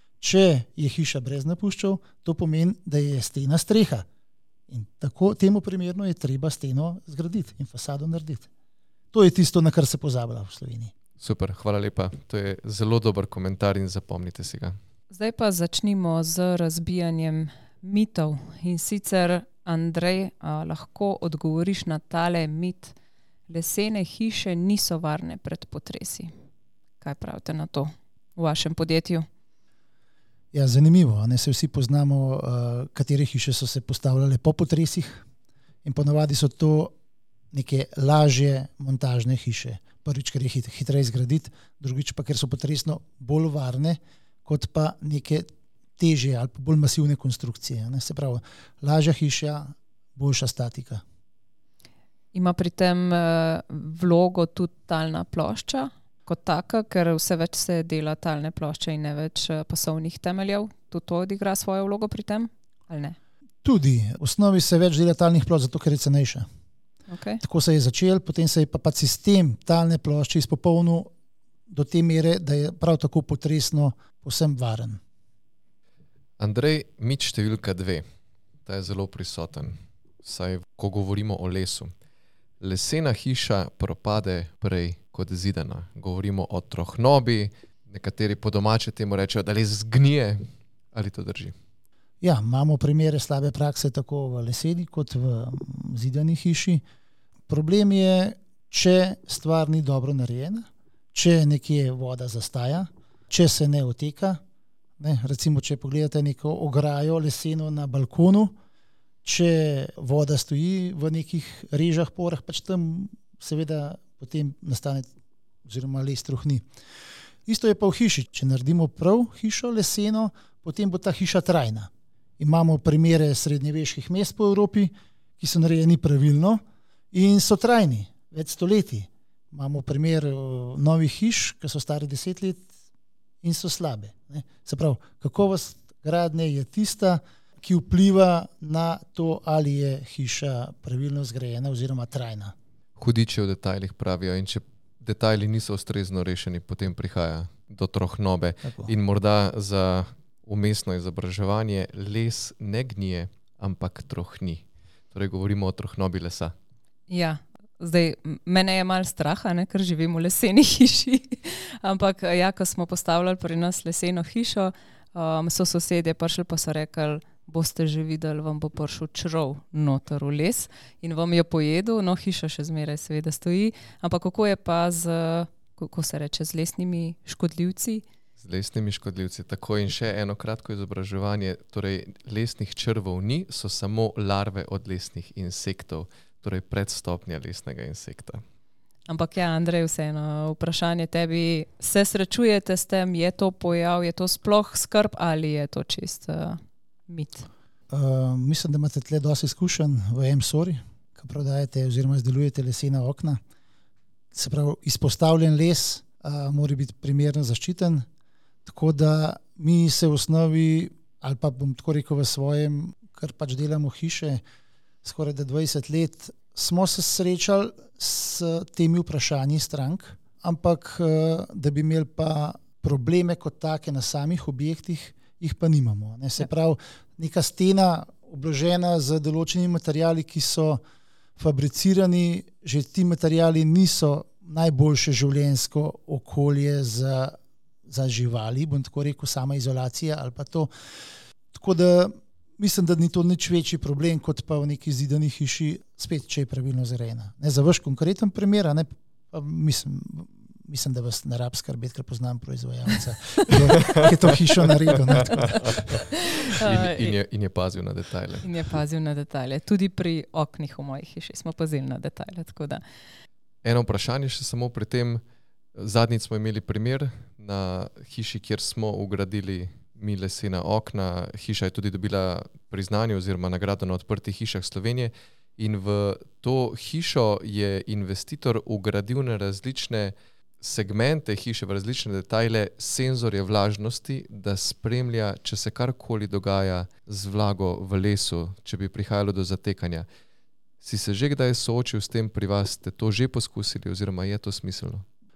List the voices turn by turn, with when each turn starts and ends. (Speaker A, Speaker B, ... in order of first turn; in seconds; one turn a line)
Speaker A: 0.2-4.1
Speaker A: 4.7-8.5
Speaker A: 9.1-10.9
Speaker B: 11.2-14.8
Speaker C: 15.1-22.9
Speaker C: 23.5-26.3
Speaker C: 27.0-29.3
Speaker A: 30.5-35.2
Speaker A: 35.8-36.9
Speaker A: 37.5-45.5
Speaker A: 46.0-51.0
Speaker C: 52.3-63.2
Speaker A: 63.6-66.5
Speaker C: 67.1-67.4
Speaker A: 67.4-71.1
Speaker A: 71.7-75.0
Speaker B: 76.4-78.0
Speaker B: 78.7-81.9
Speaker B: 82.6-91.5
Speaker A: 92.2-96.8
Speaker A: 97.5-104.4
Speaker A: 105.0-108.5
Speaker A: 109.2-115.1
Speaker A: 115.7-116.6
Speaker A: 117.5-132.7
Speaker A: 133.4-142.6
Speaker B: 143.0-156.6
Speaker A: 148.6-148.9
Speaker C: 157.1-178.0
Speaker B: 178.4-188.4
Speaker C: 189.1-197.5
Speaker A: 197.9-203.4
Speaker A: 204.3-208.1
Speaker A: 208.7-214.4
Speaker A: 215.0-230.8
Speaker A: 231.4-240.7
Speaker A: 241.5-255.7
Speaker C: 256.3-257.1
Speaker B: 256.6-258.5
Speaker C: 258.4-262.8
Speaker B: 263.6-265.2
Speaker B: 265.8-290.1
Speaker B: 290.8-295.1